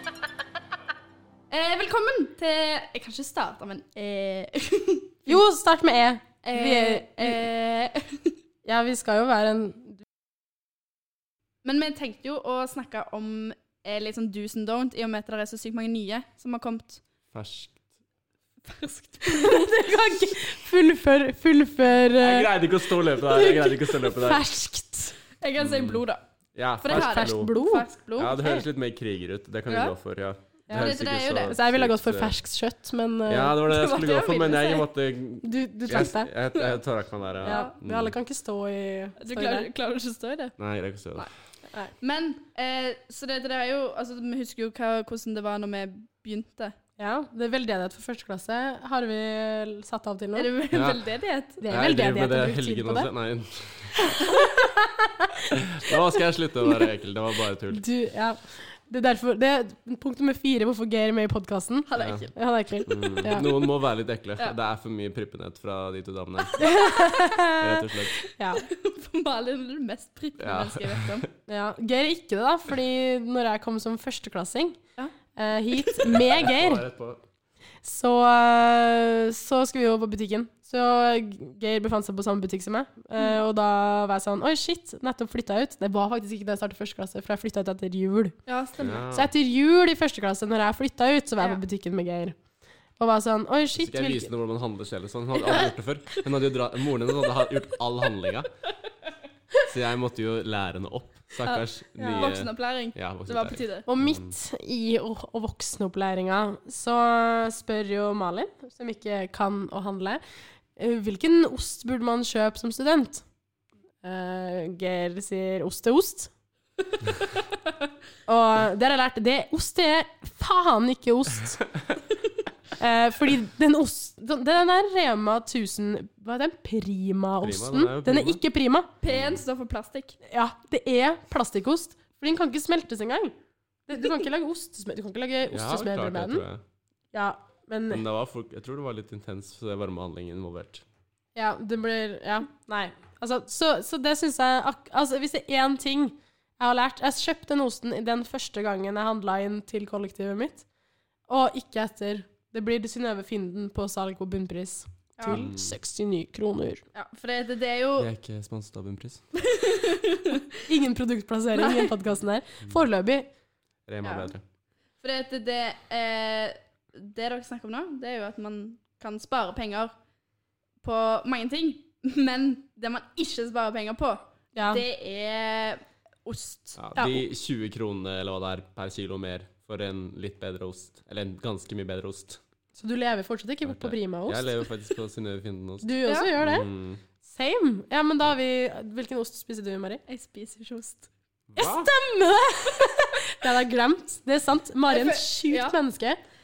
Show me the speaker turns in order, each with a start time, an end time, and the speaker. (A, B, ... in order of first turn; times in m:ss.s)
0:01.5-0:05.4 A
0:05.2-0:07.4 B
0:06.4-0:08.3 A
0:08.6-0:10.0 B
0:11.6-0:17.0 A
0:17.3-0:17.8 C
0:18.7-0:19.9 A
0:19.2-0:22.5 B
0:22.2-0:24.5 C
0:23.5-0:25.2 B
0:25.4-0:26.2 A
0:25.6-0:26.0 C
0:26.5-0:27.5 C
0:26.8-0:28.4 A
0:26.9-0:28.6 B
0:28.2-0:32.3 C
0:29.7-0:29.9 A
0:30.7-0:33.6 B
0:30.7-0:31.6 A
0:33.2-0:38.2 C
0:33.6-0:34.9 A
0:35.4-0:36.3 B
0:37.4-0:39.7 B
0:37.4-0:37.7 A
0:39.2-0:40.5 A
0:40.6-0:41.3 C
0:42.0-0:46.8 A
0:47.0-0:50.5 B
0:50.3-0:51.6 A
0:50.7-0:51.0 C
0:51.6-0:53.1 B
0:51.6-0:53.9 C
0:54.1-0:55.6 B
0:54.3-0:54.7 A
0:55.5-0:57.8 C
0:57.7-1:03.5 B
1:01.9-1:02.3 A
1:02.0-1:02.3 C
1:02.9-1:06.8 C
1:06.6-1:08.7 B
1:07.4-1:08.2 C
1:08.6-1:11.3 A
1:10.4-1:11.3 C
1:11.5-1:14.8 B
1:15.3-1:16.8 B
1:15.8-1:16.0 A
1:16.1-1:17.2 C
1:17.8-1:28.3 B
1:28.4-1:29.0 A
1:28.8-1:29.3 C
1:29.1-1:32.4 B
1:33.0-1:34.3 B
1:33.8-1:38.5 C
1:35.3-1:36.2 A
1:39.7-1:44.4 C
1:41.4-1:43.8 A
1:42.0-1:42.2 B
1:43.9-1:50.2 B
1:50.8-1:53.2 B
1:54.0-1:56.3 B
1:58.3-2:01.6 B
2:02.8-2:08.9 B
2:07.4-2:08.4 C
2:09.0-2:10.2 A
2:09.0-2:09.4 C
2:10.2-2:13.3 B
2:13.9-2:16.4 B
2:15.5-2:16.6 C
2:17.1-2:18.0 B
2:17.9-2:20.8 C
2:21.3-2:30.6 B
2:31.3-2:36.8 B
2:35.2-2:35.5 A
2:35.3-2:35.8 C
2:36.9-2:38.1 A
2:38.0-2:39.2 C
2:39.4-2:40.6 A
2:40.6-2:43.3 B
2:41.5-2:41.9 A
2:43.9-2:44.4 C
2:44.0-2:44.3 A
2:45.0-2:49.9 A
2:50.8-2:56.8 A
2:54.5-2:54.8 B
2:56.8-3:02.4 C
2:56.9-2:57.2 B
3:02.7-3:04.5 B
3:03.6-3:07.0 C
3:05.8-3:06.7 B
3:06.0-3:06.3 A
3:07.2-3:10.0 B
3:10.1-3:11.1 A
3:11.5-3:11.9 C
3:11.6-3:16.2 B
3:14.9-3:15.8 A